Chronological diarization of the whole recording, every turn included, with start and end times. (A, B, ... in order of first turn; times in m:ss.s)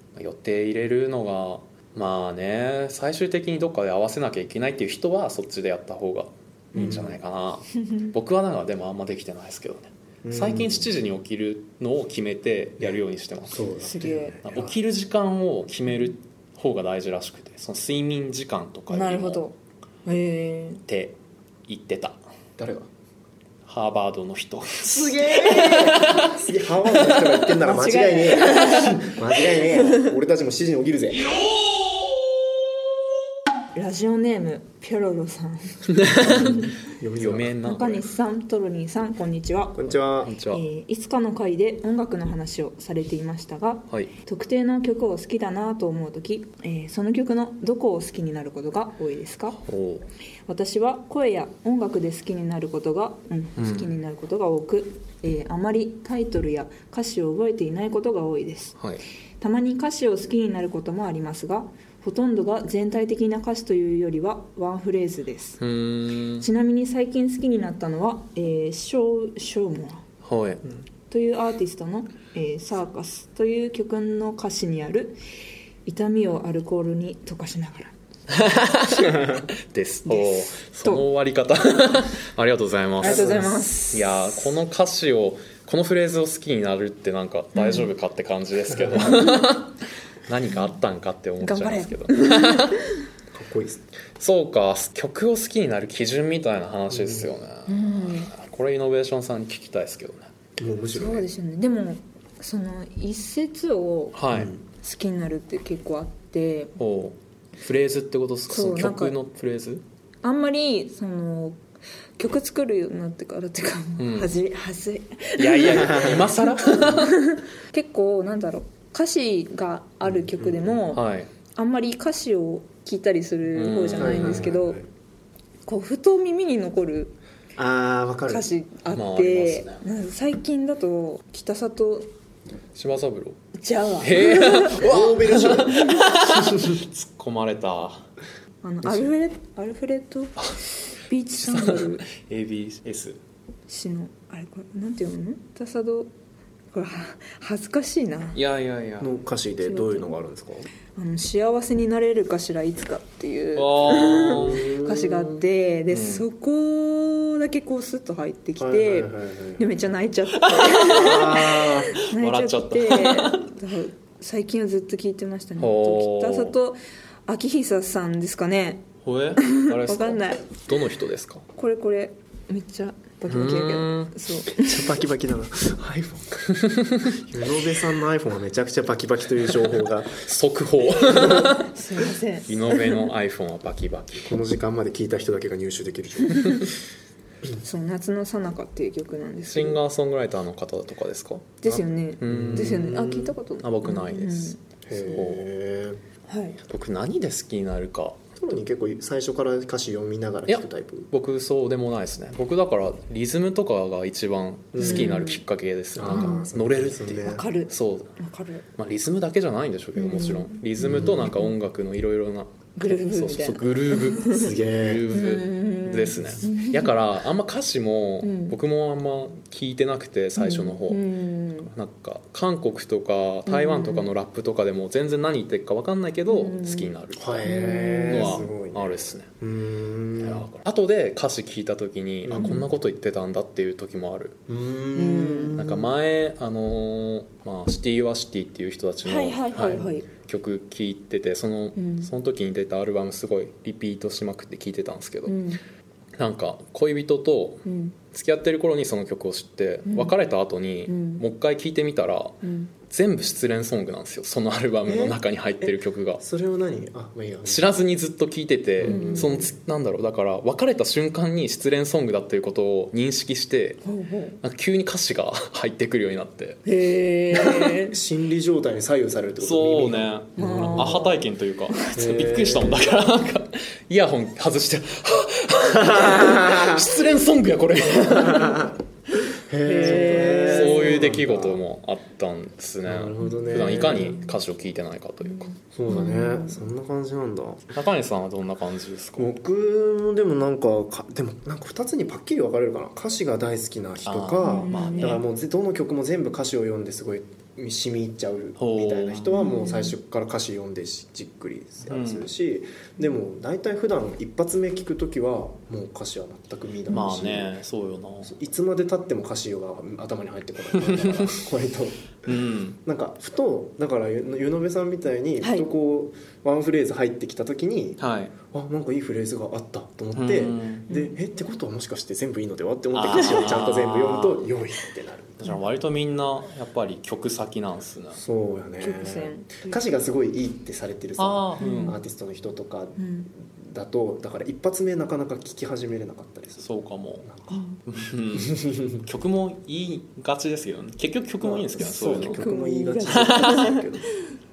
0:00.2-0:13.7 A
0:06.7-0:07.2 B
0:06.7-0:07.0 C
0:10.2-0:10.9 B
0:12.8-0:14.8 B
0:13.8-0:14.4 C
0:14.4-0:19.4 A
0:18.9-0:20.8 C
0:20.9-0:22.2 A
0:22.6-0:22.9 B
0:23.6-0:26.3 A
0:25.0-0:31.3 B
0:25.2-0:26.0 C
0:27.4-0:30.1 C
0:33.7-0:36.6 C
0:35.9-0:38.0 A
0:36.1-0:37.6 B
0:37.6-0:39.9 C
0:39.7-0:40.3 B
0:40.2-0:40.6 A
0:40.5-0:49.6 C
0:49.6-0:50.0 A
0:50.5-0:58.8 C
0:53.6-0:53.9 A
0:59.4-1:05.6 C
1:05.6-1:06.5 A
1:06.4-1:10.0 C
1:10.2-1:10.7 A
1:11.1-1:15.2 C
1:15.8-1:17.9 C
1:18.3-1:32.8 A
1:19.1-1:19.4 B
1:20.1-1:21.0 C
1:23.0-1:23.8 B
1:23.0-1:24.4 C
1:27.5-1:27.9 C
1:28.8-1:29.3 B
1:31.4-1:32.8 C
1:33.3-1:33.8 B
1:34.2-1:40.3 A
1:36.9-1:37.3 B
1:37.7-1:38.3 C
1:40.6-1:41.3 B
1:40.9-1:46.7 C
1:44.1-1:44.5 A
1:44.3-1:44.6 B
1:46.8-1:49.8 A
1:48.5-1:49.2 C
1:50.2-1:51.6 C
1:52.2-2:01.0 C
1:54.0-1:54.3 A
1:55.4-1:57.2 A
2:00.0-2:00.8 B
2:00.9-2:01.3 A
2:01.6-2:04.8 C
2:03.5-2:04.5 A
2:04.0-2:04.8 B
2:05.6-2:07.1 C
2:07.6-2:08.5 B
2:08.3-2:12.1 C
2:08.9-2:09.8 A
2:12.7-2:13.4 A
2:13.6-2:14.8 C
2:14.0-2:18.0 A
2:14.7-2:16.8 B
2:15.8-2:16.1 C
2:18.6-2:22.0 C
2:21.4-2:23.2 A
2:23.7-2:26.1 C
2:26.7-2:28.4 C
2:28.3-2:29.1 A
2:29.0-2:30.7 B
2:29.6-2:30.2 C
2:31.0-2:50.4 C
2:33.5-2:34.7 A
2:34.1-2:35.4 B
2:35.9-2:36.2 A
2:38.6-2:39.7 B
2:40.3-2:43.4 A
2:40.8-2:41.9 B
2:45.6-2:46.6 A
2:49.0-2:51.4 A
2:51.6-2:55.0 C
2:53.3-2:54.1 A
2:54.5-3:00.2 B
2:56.6-2:57.2 A
3:00.1-3:01.8 A
3:01.1-3:03.1 C
3:02.4-3:04.3 A
3:04.2-3:06.8 B
3:06.3-3:06.6 C
3:06.4-3:06.6 A
3:07.6-3:09.8 C
3:09.5-3:11.6 A
3:11.6-3:15.2 C
3:11.6-3:13.4 B
3:12.2-3:15.4 A
3:14.9-3:16.0 B
3:16.3-3:16.6 C
3:16.7-3:18.2 A
3:18.4-3:21.1 B
3:20.5-3:28.1 A
3:24.7-3:25.2 B
3:24.8-3:25.4 C
3:25.9-3:27.5 B
3:26.0-3:26.5 C
3:27.2-3:28.6 C
3:28.8-3:41.0 A
3:30.0-3:31.2 C
3:30.8-3:31.3 B
3:32.8-3:34.5 C
3:34.3-3:35.1 B
3:35.1-3:37.0 C
3:38.2-3:38.6 C
3:40.4-3:41.7 C
3:41.6-3:47.5 A
3:43.4-3:44.1 C
3:46.3-3:46.9 C
3:47.2-3:50.4 B
3:47.4-3:48.4 C
3:48.0-3:49.3 A
3:50.2-3:54.4 A
3:52.2-3:52.6 B
3:52.4-3:52.6 C
3:54.5-3:55.9 B
3:54.9-3:55.7 C
3:55.6-4:05.4 A
3:59.0-4:00.0 C
3:59.7-4:00.0 B
4:01.8-4:02.1 C
4:05.3-4:05.6 C
4:06.2-4:16.2 A
4:07.6-4:07.9 C
4:09.8-4:10.1 C
4:10.9-4:11.2 C
4:12.4-4:12.7 C
4:14.8-4:15.2 B
4:16.2-4:17.8 B
4:17.4-4:23.8 A
4:18.8-4:19.5 B
4:18.8-4:19.5 C
4:23.8-4:24.4 C
4:24.4-4:26.6 A
4:26.6-4:28.0 C
4:27.6-4:31.1 B
4:29.4-4:38.7 A
4:30.4-4:31.1 C
4:31.7-4:32.1 C
4:32.0-4:32.9 B
4:35.8-4:36.8 B
4:38.2-4:38.7 B
4:39.5-4:41.6 B
4:39.6-4:41.0 C
4:39.8-4:45.5 A
4:42.8-4:44.2 B
4:43.3-4:44.2 C
4:45.3-4:46.6 C
4:45.7-4:47.7 B
4:47.7-4:49.3 A
4:49.2-5:07.5 B
4:54.0-4:55.2 A
4:54.4-4:55.2 C
4:58.6-4:59.4 A
4:59.3-4:59.9 C
5:01.9-5:02.3 A
5:06.9-5:08.3 A
5:08.2-5:25.5 B
5:10.7-5:11.3 A
5:12.2-5:12.8 A
5:15.4-5:15.7 C
5:18.0-5:18.3 A
5:20.1-5:20.9 A
5:20.9-5:21.2 C
5:22.9-5:24.4 A
5:23.1-5:23.5 C
5:25.4-5:28.2 A
5:28.2-5:36.7 B
5:28.8-5:29.8 C
5:31.2-5:31.9 A
5:31.6-5:32.0 C
5:33.0-5:33.3 C
5:36.6-5:37.3 A
5:37.2-5:37.6 B
5:37.5-5:37.8 C
5:37.8-5:42.4 A
5:38.3-5:39.0 B
5:41.4-5:44.1 B
5:42.1-5:44.1 C
5:43.1-5:43.6 A